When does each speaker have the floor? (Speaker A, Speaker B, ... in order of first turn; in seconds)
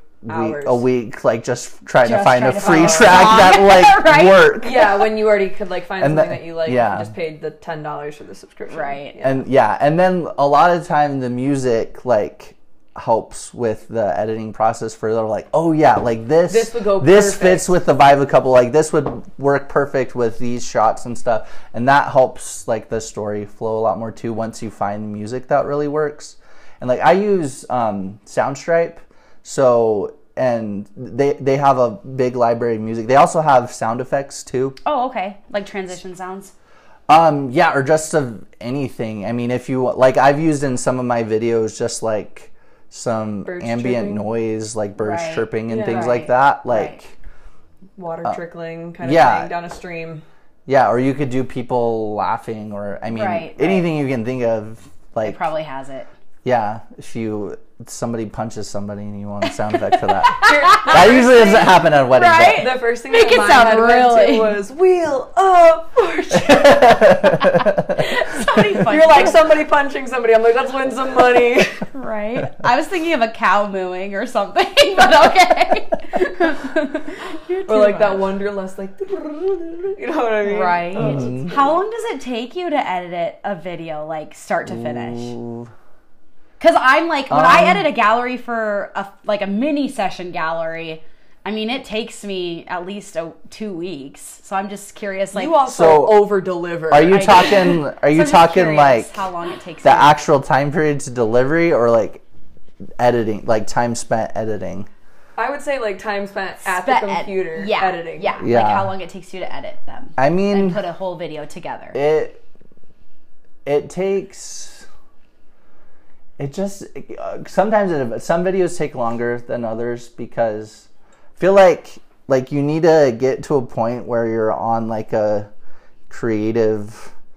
Speaker A: 0.2-5.1, 6.0-7.1, 9.2-34.8, 37.1-47.1, 49.0-49.5, 50.7-55.4, 56.4-62.7, 66.3-68.0, 81.0-81.5, 84.7-85.7, 87.3-87.9, 95.7-96.3, 96.9-99.2, 99.8-102.2, 103.0-104.9, 108.4-108.9, 110.2-110.8, 111.9-112.4, 113.6-114.8, 116.4-125.5, 126.1-127.1
Speaker B: 0.3-0.8, 2.6-3.5, 4.6-9.4, 16.5-17.8, 43.4-44.2, 45.7-46.2, 48.0-50.2, 60.4-61.6, 62.6-67.0, 68.8-71.8, 77.7-81.8, 95.3-97.6, 105.4-108.3
Speaker C: 2.0-4.5, 8.7-9.1, 34.8-36.5, 45.0-47.0, 53.1-53.8, 55.2-56.1, 60.2-64.6, 67.2-69.4, 71.9-78.3, 80.4-85.3, 86.6-95.6, 97.1-100.1, 106.7-112.0